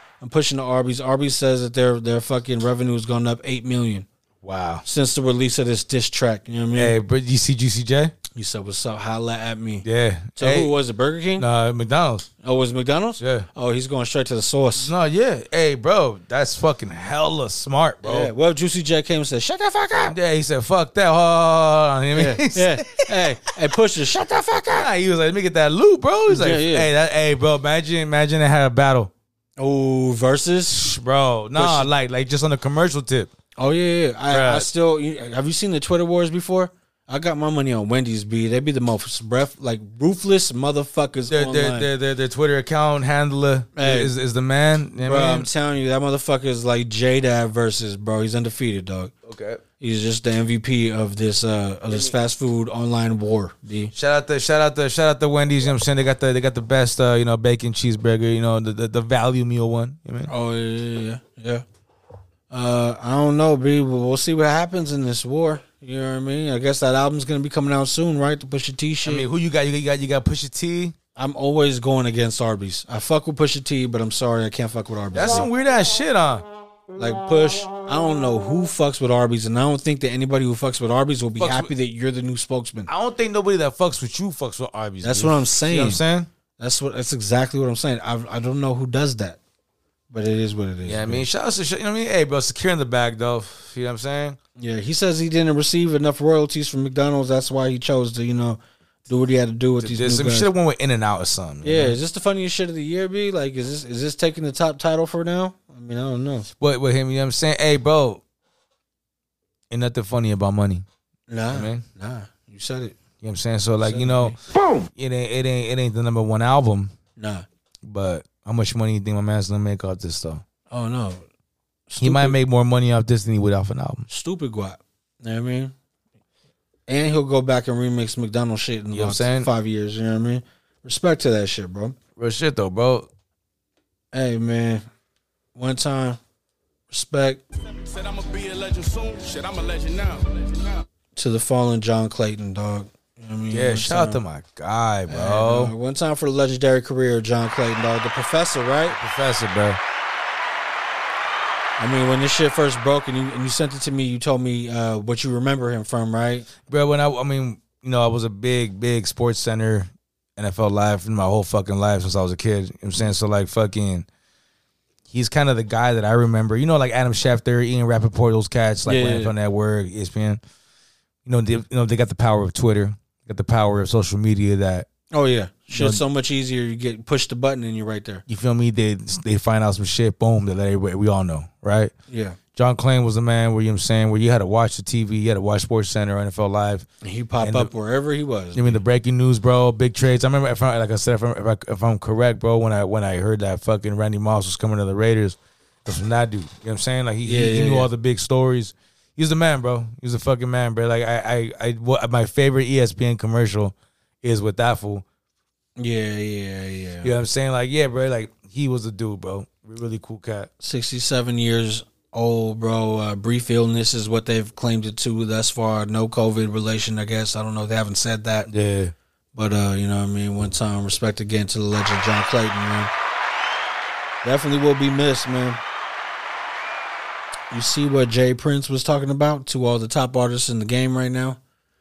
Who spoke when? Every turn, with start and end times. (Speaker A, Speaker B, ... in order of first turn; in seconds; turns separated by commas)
Speaker A: 0.2-4.0, Speaker B: 4.4-4.8, Speaker A: 4.8-7.0, Speaker B: 6.7-8.1, Speaker A: 8.3-11.4, Speaker B: 9.8-10.8, Speaker B: 11.4-12.3, Speaker A: 12.4-14.9, Speaker B: 13.2-13.5, Speaker B: 14.8-18.3, Speaker A: 18.0-20.1, Speaker B: 20.0-23.2, Speaker A: 22.1-24.9, Speaker B: 24.7-29.1, Speaker A: 26.3-26.9, Speaker A: 29.6-30.8, Speaker B: 30.7-33.3, Speaker A: 31.6-31.9, Speaker A: 33.6-41.9, Speaker B: 34.3-34.7, Speaker B: 41.3-45.5, Speaker A: 43.8-44.1, Speaker A: 45.0-49.1, Speaker B: 49.2-49.6, Speaker A: 49.8-53.9, Speaker B: 53.9-60.3, Speaker A: 60.3-61.6, Speaker A: 62.5-69.2, Speaker B: 69.0-70.9, Speaker A: 71.2-75.5, Speaker B: 75.1-76.5, Speaker A: 77.0-82.9, Speaker B: 81.4-81.7, Speaker B: 82.9-86.3, Speaker A: 85.0-86.0, Speaker A: 86.6-89.4, Speaker A: 90.1-91.2, Speaker B: 90.8-94.4, Speaker A: 94.6-100.5, Speaker B: 99.8-102.0, Speaker A: 101.6-106.5, Speaker B: 106.6-108.2, Speaker B: 109.7-110.8, Speaker A: 111.3-113.0, Speaker B: 111.5-111.8, Speaker B: 113.2-116.9, Speaker A: 113.8-114.4, Speaker A: 117.2-117.4, Speaker B: 117.8-120.4, Speaker A: 120.7-121.2, Speaker A: 121.9-122.4, Speaker B: 122.0-124.1, Speaker A: 124.1-125.7, Speaker A: 126.9-131.9, Speaker B: 128.9-129.5, Speaker B: 132.2-133.1, Speaker A: 134.1-134.8, Speaker A: 135.6-136.2, Speaker A: 136.9-137.4, Speaker C: 137.9-140.8, Speaker A: 141.2-144.2, Speaker B: 143.5-145.7, Speaker A: 145.1-149.0, Speaker B: 148.9-149.8, Speaker A: 151.8-156.5, Speaker B: 156.7-164.1, Speaker B: 165.1-170.4, Speaker A: 168.8-169.3, Speaker B: 171.2-174.9, Speaker A: 175.1-178.2, Speaker B: 175.7-176.0, Speaker B: 178.3-181.9, Speaker A: 182.1-182.4, Speaker B: 182.5-186.9, Speaker A: 187.0-188.8, Speaker B: 187.4-187.7, Speaker B: 188.5-205.0, Speaker A: 197.2-197.9, Speaker A: 205.8-207.1, Speaker B: 207.0-210.5, Speaker A: 210.6-218.5, Speaker B: 218.5-218.9, Speaker A: 219.3-222.9, Speaker A: 224.2-225.6, Speaker A: 227.5-231.4